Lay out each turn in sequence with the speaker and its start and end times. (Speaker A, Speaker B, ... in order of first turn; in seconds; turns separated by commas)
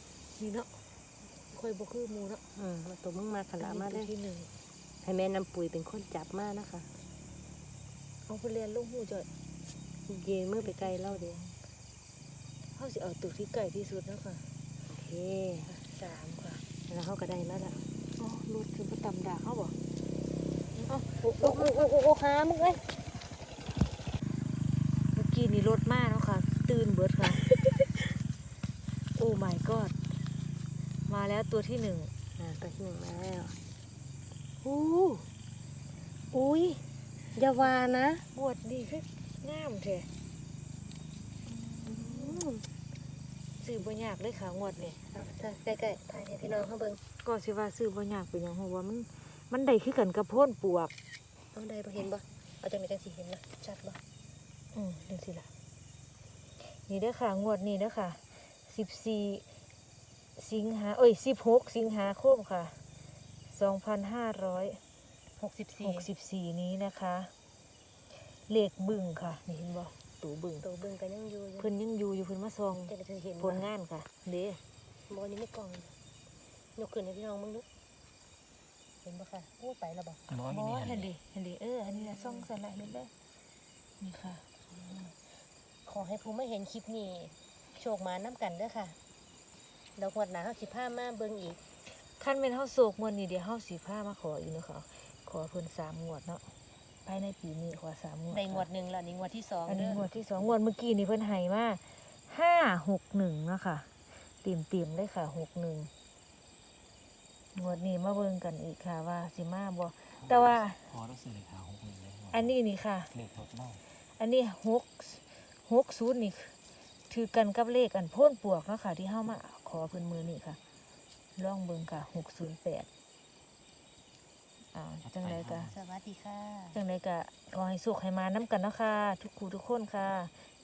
Speaker A: 0.4-2.5, Speaker B: 2.5-4.1, Speaker A: 3.6-4.5, Speaker B: 5.0-6.9, Speaker A: 8.3-9.3, Speaker B: 10.1-11.4, Speaker A: 10.6-11.6, Speaker A: 12.8-14.5, Speaker B: 14.9-15.7, Speaker A: 15.7-16.6, Speaker B: 16.9-17.8, Speaker A: 18.2-19.8, Speaker A: 20.8-21.9, Speaker B: 20.9-22.8, Speaker A: 25.1-27.4, Speaker A: 29.2-30.0, Speaker A: 31.1-32.1, Speaker B: 32.4-33.5, Speaker B: 34.6-35.2, Speaker B: 36.3-36.8, Speaker B: 37.4-38.2, Speaker A: 38.3-40.1, Speaker A: 41.7-42.5, Speaker B: 41.8-42.7, Speaker A: 43.6-45.0, Speaker B: 45.0-47.0, Speaker A: 47.2-50.9, Speaker B: 51.5-54.0, Speaker A: 54.7-55.5, Speaker A: 56.6-59.5, Speaker A: 60.4-62.8, Speaker A: 63.5-64.8, Speaker B: 65.4-66.1, Speaker A: 65.8-67.3, Speaker A: 68.3-70.7, Speaker B: 70.6-71.7, Speaker A: 71.6-74.6, Speaker B: 72.9-73.7, Speaker B: 75.1-75.9, Speaker B: 76.8-77.7, Speaker B: 79.0-80.2, Speaker C: 80.3-81.1, Speaker A: 80.5-83.1, Speaker B: 81.9-82.5, Speaker A: 84.0-84.6, Speaker B: 84.7-85.2, Speaker B: 85.9-89.0, Speaker B: 90.0-91.6, Speaker A: 91.9-96.5, Speaker A: 97.0-98.7, Speaker B: 98.3-100.2, Speaker A: 99.7-105.9, Speaker A: 107.5-110.9, Speaker C: 110.2-112.5, Speaker A: 112.3-113.1, Speaker C: 113.1-113.8, Speaker A: 113.9-116.6, Speaker A: 117.1-120.6, Speaker A: 121.4-122.9, Speaker A: 124.7-125.7, Speaker C: 125.0-125.8, Speaker B: 125.7-126.8, Speaker A: 126.7-130.4